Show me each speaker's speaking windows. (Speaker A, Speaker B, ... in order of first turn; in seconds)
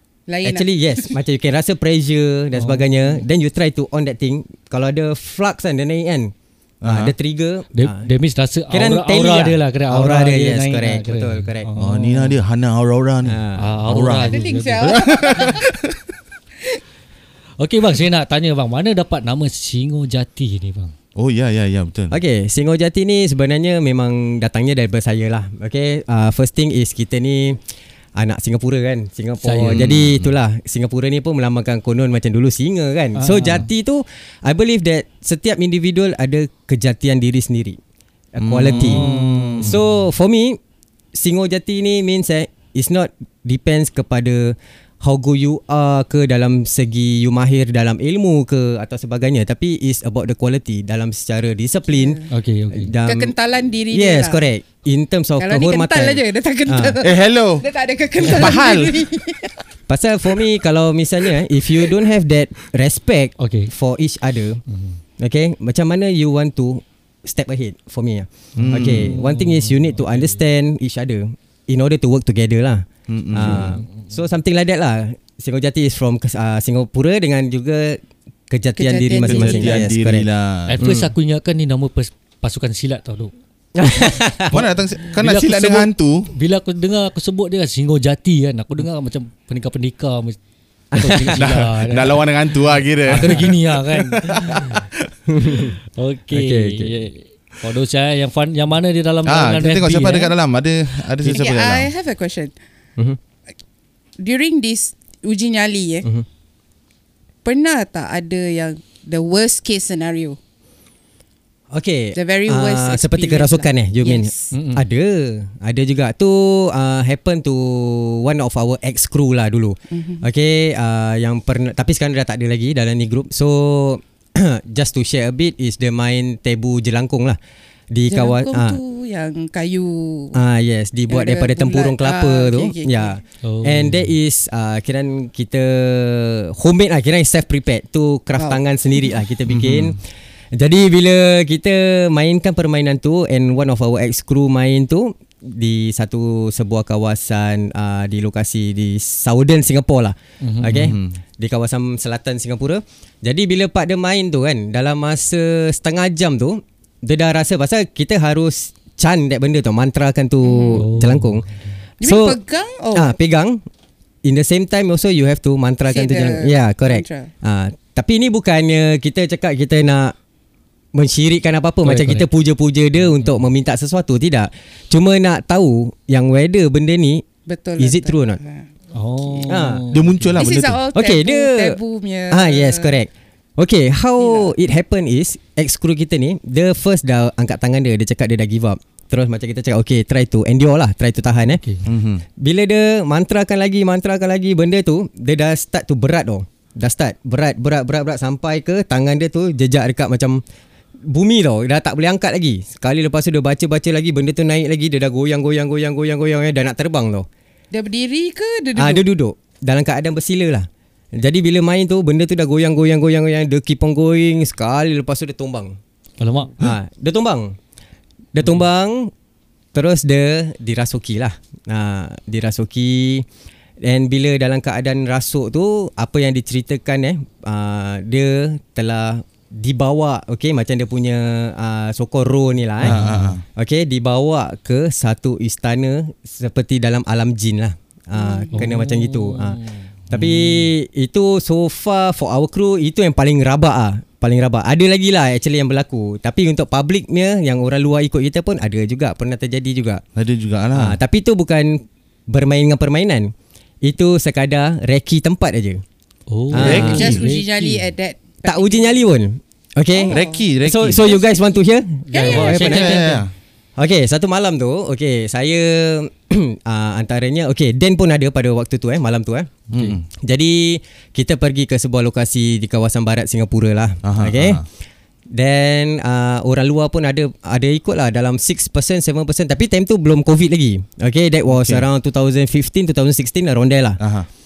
Speaker A: 0.3-1.1, 14.2-15.7, 51.9-52.3, 53.0-54.5, 55.4-59.5, 78.8-79.9, 101.2-102.5, 104.2-106.1, 107.5-110.4, 112.2-114.5, 119.9-120.3, 128.1-130.4, 131.1-133.2, 138.4-139.2, 160.4-160.8, 162.0-163.2, 165.9-167.3, 177.5-178.7, 180.4-183.0, 184.2-184.5, 207.7-209.1, 238.1-238.6, 256.6-259.0, 260.0-260.4, 262.1-262.9
Speaker B: 0.4-6.3, 6.8-8.1, 8.7-11.7, 13.2-13.8, 22.1-27.6, 28.2-37.8, 38.3-39.0, 39.6-40.6, 41.1-52.2, 52.7-53.3, 53.9-57.0, 59.9-64.6, 65.2-80.3, 80.8-81.1, 83.8-84.5, 90.9-91.5, 95.3-95.8, 96.3-96.9, 111.7-127.4, 127.9-128.8, 130.3-140.0, 140.5-161.4, 162.0-162.4, 162.9-163.6, 164.2-170.2, 170.9-177.2, 177.8-178.4, 179.4-179.9, 180.9-181.8, 182.3-191.6, 192.4-200.4, 201.1-207.3, 208.8-215.8, 216.6-217.6, 218.3-219.1, 219.7-223.2, 223.8-233.0, 233.6-239.6, 240.1-250.0, 250.8-255.8, 256.5-257.1, 258.4-263.0, 263.8-269.5, 270.2-274.6, 275.3-284.0
Speaker C: 2.6-3.2, 7.8-12.4, 13.6-15.6, 17.6-20.9, 29.4-29.9, 33.2-33.7, 38.6-39.8, 52.3-52.9, 63.4-63.7, 64.7-65.0, 68.6-70.4, 73.5-74.1, 80.7-83.3, 84.0-90.4, 91.0-92.3, 93.0-94.8, 95.9-100.3, 114.5-114.9, 133.4-134.1, 150.4-150.9, 160.8-161.7, 171.8-172.3, 173.0-173.4, 178.9-180.4, 191.6-191.9, 216.2-216.6, 232.8-233.4, 238.5-240.7, 256.3-257.9, 262.1-263.2
Speaker D: 6.8-7.1, 11.8-16.0, 21.2-22.2, 29.7-30.3, 38.4-39.8, 57.0-57.7, 58.2-59.0, 68.6-69.2, 73.1-73.8, 79.2-80.8, 84.5-86.3, 91.4-95.1, 99.2-101.9, 139.5-140.0, 150.7-151.2, 179.9-180.8, 191.8-192.2, 232.8-233.4, 250.2-251.0, 256.5-257.2, 260.1-261.1, 262.2-263.3, 269.7-270.1, 274.0-274.6, 281.5-281.9, 284.0-284.3